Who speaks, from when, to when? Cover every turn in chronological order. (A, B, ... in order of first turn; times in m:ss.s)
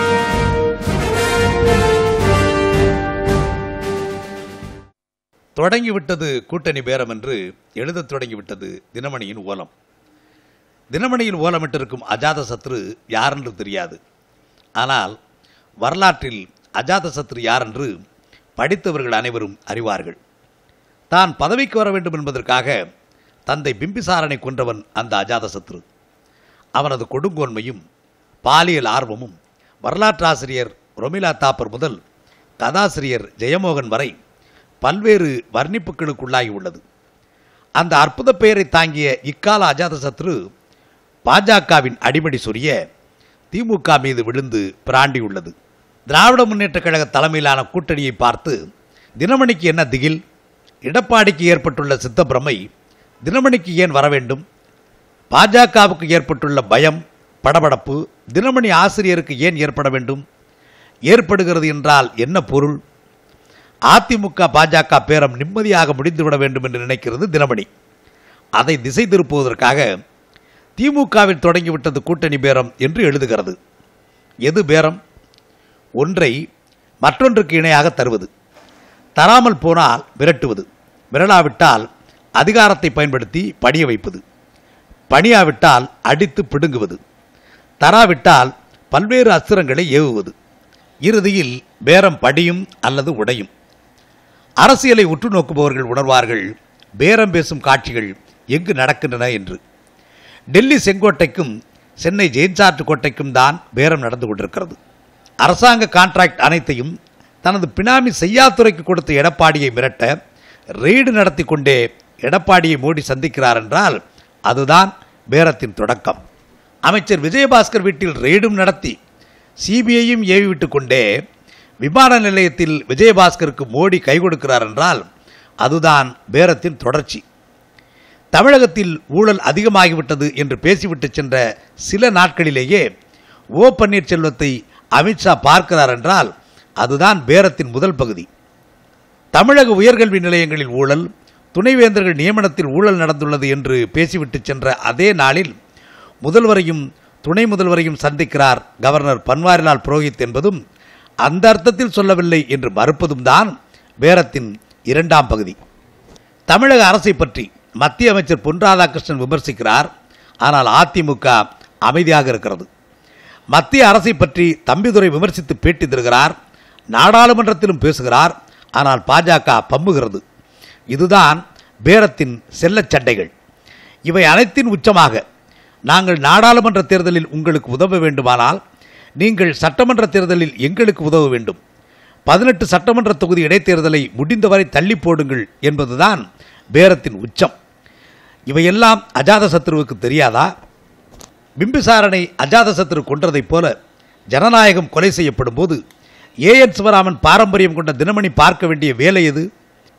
0:05.6-0:09.7 A
0:10.9-0:14.0 A
0:14.8-0:15.1 A
0:15.8-0:17.9 A
0:18.6-0:20.2 A
0:21.1-0:22.8 A
0:23.5-0:25.8 A
0:26.7-0:27.8 A
0:28.4-0:32.0 A
0:32.6-0:34.1 A
0:34.8-0:36.8 A
0:37.8-0:40.4 A
0:41.2-0:42.7 A
0:43.5-0:45.5 A
0:46.1-0:48.6 A
0:49.2-0:50.2 A
0:50.8-0:52.6 A
0:53.2-0:54.4 A
0:55.3-1:00.2 A
1:01.1-1:02.8 A
1:03.9-1:07.7 A
1:08.6-1:09.9 A
1:10.8-1:13.6 A
1:14.4-1:15.0 A
1:16.0-1:16.4 A
1:17.0-1:18.3 A
1:19.2-1:21.8 A
1:22.4-1:24.2 A
1:25.1-1:27.0 A
1:27.8-1:30.3 A
1:31.0-1:33.5 A
1:34.6-1:36.4 A
1:37.0-1:39.6 A
1:40.5-1:44.8 A
1:45.4-1:50.1 A
1:50.8-1:56.2 A
1:56.8-1:59.0 A
1:59.6-2:01.1 A
2:01.8-2:05.0 A
2:05.6-2:07.2 A
2:08.3-2:12.8 A
2:13.6-2:18.3 A
2:19.3-2:25.5 A
2:26.2-2:30.6 A
2:31.2-2:35.6 A
2:36.5-2:39.9 A
2:40.4-2:42.7 A
2:43.5-2:46.3 A
2:46.9-2:50.2 A
2:50.9-2:53.3 A
2:54.1-2:55.2 A
2:55.9-2:58.6 A
2:59.2-3:01.6 A
3:02.3-3:06.2 A
3:06.7-3:07.5 A
3:08.5-3:10.5 A
3:11.6-3:13.7 A
3:14.3-3:15.8 A
3:16.4-3:19.5 A